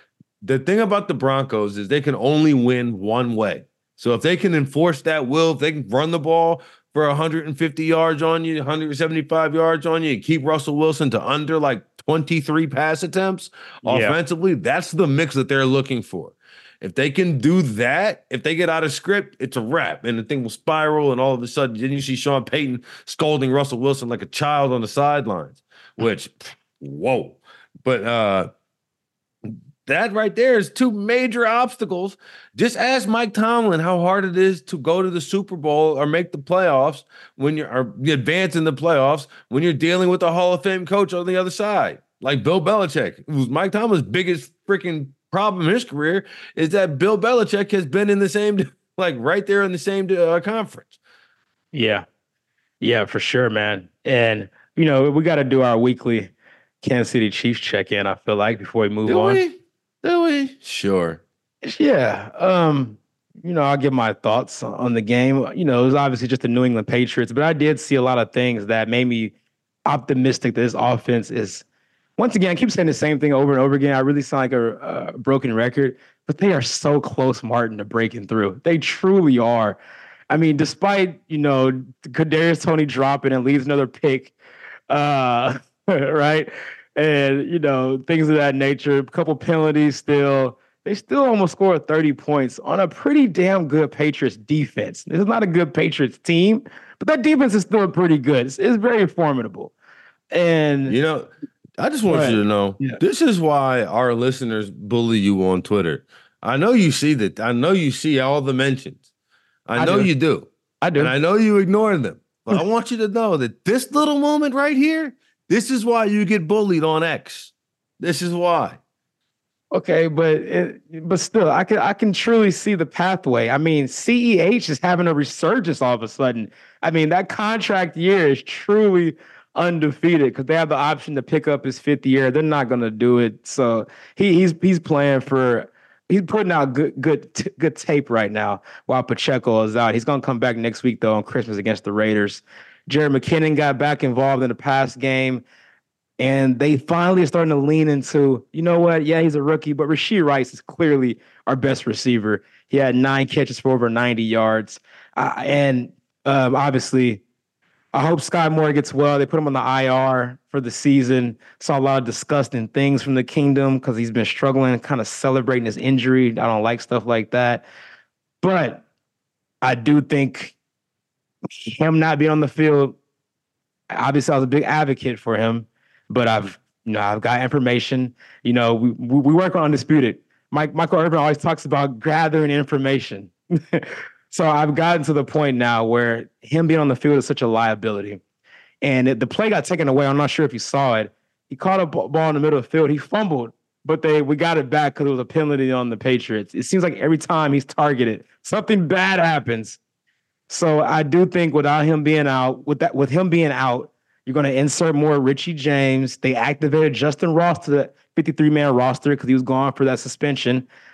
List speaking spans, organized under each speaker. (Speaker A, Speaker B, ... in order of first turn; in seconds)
Speaker A: 0.4-28.5, 29.5-51.0, 59.0-61.2, 100.9-109.0, 109.7-118.8
Speaker B: 13.8-14.2, 51.7-52.0, 52.8-59.4, 61.6-69.3, 69.8-71.6, 72.2-84.3, 84.9-99.7, 100.3-101.0, 102.1-103.0, 109.8-110.1, 110.8-111.1, 119.7-145.4, 146.2-157.2, 157.9-167.6, 168.4-168.8, 169.6-170.6, 171.5-173.0, 173.9-188.2, 188.8-199.8, 200.5-210.7